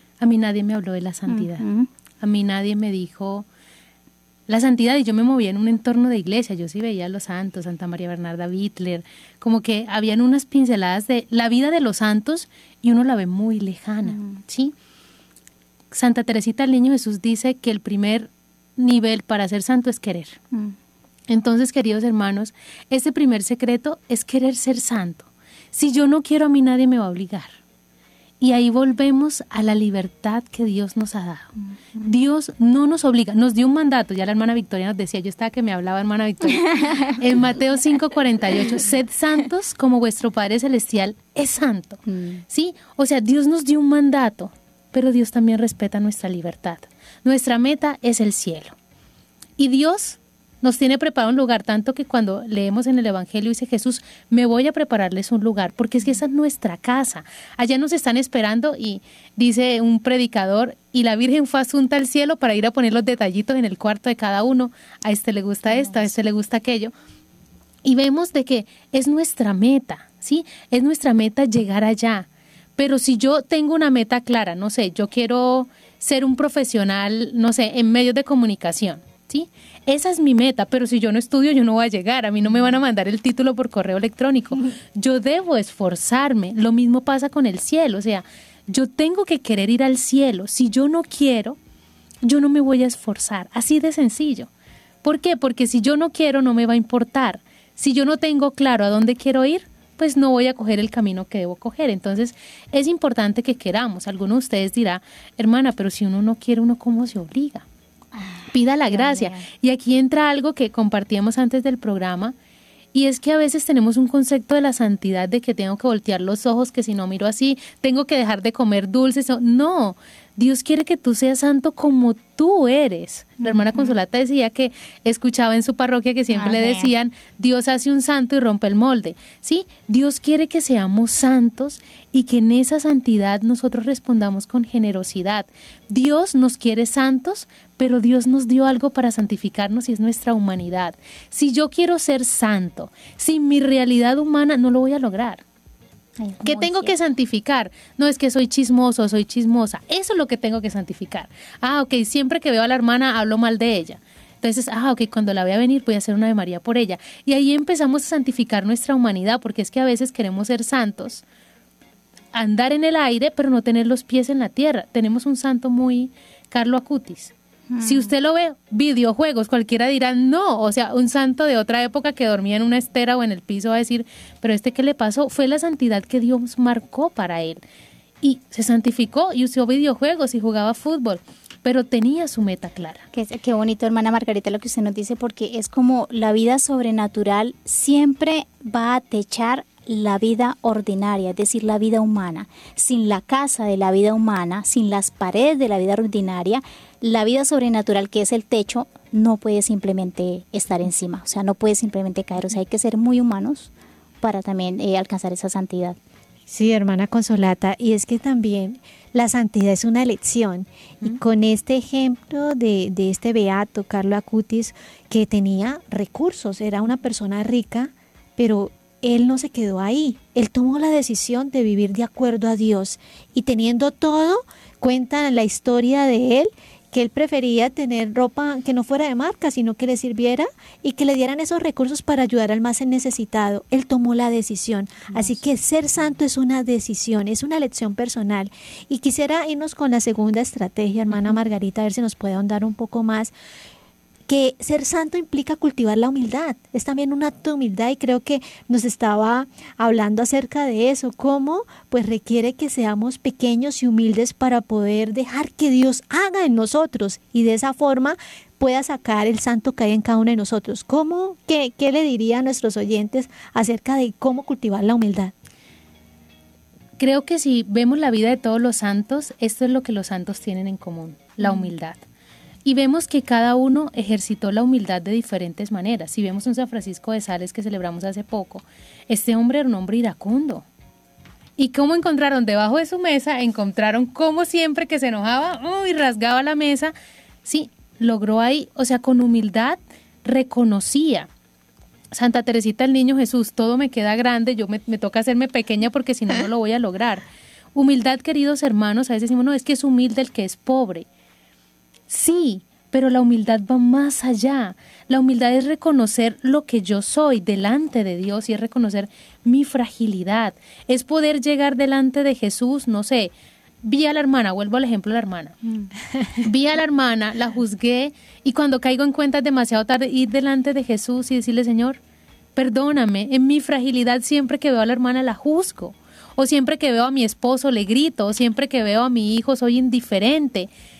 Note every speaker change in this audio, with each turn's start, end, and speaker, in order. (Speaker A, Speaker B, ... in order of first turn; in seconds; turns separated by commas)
Speaker A: 0.2-1.6, Speaker B: 1.3-1.9, Speaker A: 2.2-3.5, Speaker A: 4.5-14.7, Speaker B: 14.0-14.4, Speaker A: 15.9-20.4, Speaker A: 21.3-27.5, Speaker A: 28.4-31.5, Speaker B: 31.6-32.1, Speaker A: 32.0-48.7, Speaker B: 36.8-37.1, Speaker B: 42.0-42.4, Speaker A: 49.6-66.9, Speaker B: 65.6-66.1, Speaker A: 67.8-91.5, Speaker A: 92.2-94.5, Speaker A: 95.0-107.7, Speaker B: 108.1-109.4, Speaker A: 108.5-112.3, Speaker A: 112.9-145.4, Speaker B: 123.4-123.9, Speaker B: 126.3-126.9, Speaker B: 146.2-146.9, Speaker A: 146.4-161.2, Speaker A: 162.3-177.6, Speaker B: 167.7-168.1, Speaker A: 178.2-183.0, Speaker B: 183.1-203.7, Speaker B: 204.2-206.0, Speaker C: 206.5-243.3, Speaker B: 235.1-235.3, Speaker C: 244.3-265.3, Speaker A: 267.0-272.0, Speaker B: 271.4-271.7, Speaker A: 272.6-280.6, Speaker A: 281.6-286.9, Speaker A: 287.4-291.3, Speaker A: 292.1-301.1, Speaker A: 302.1-313.3, Speaker A: 313.8-315.6, Speaker A: 316.4-322.0, Speaker A: 322.6-330.7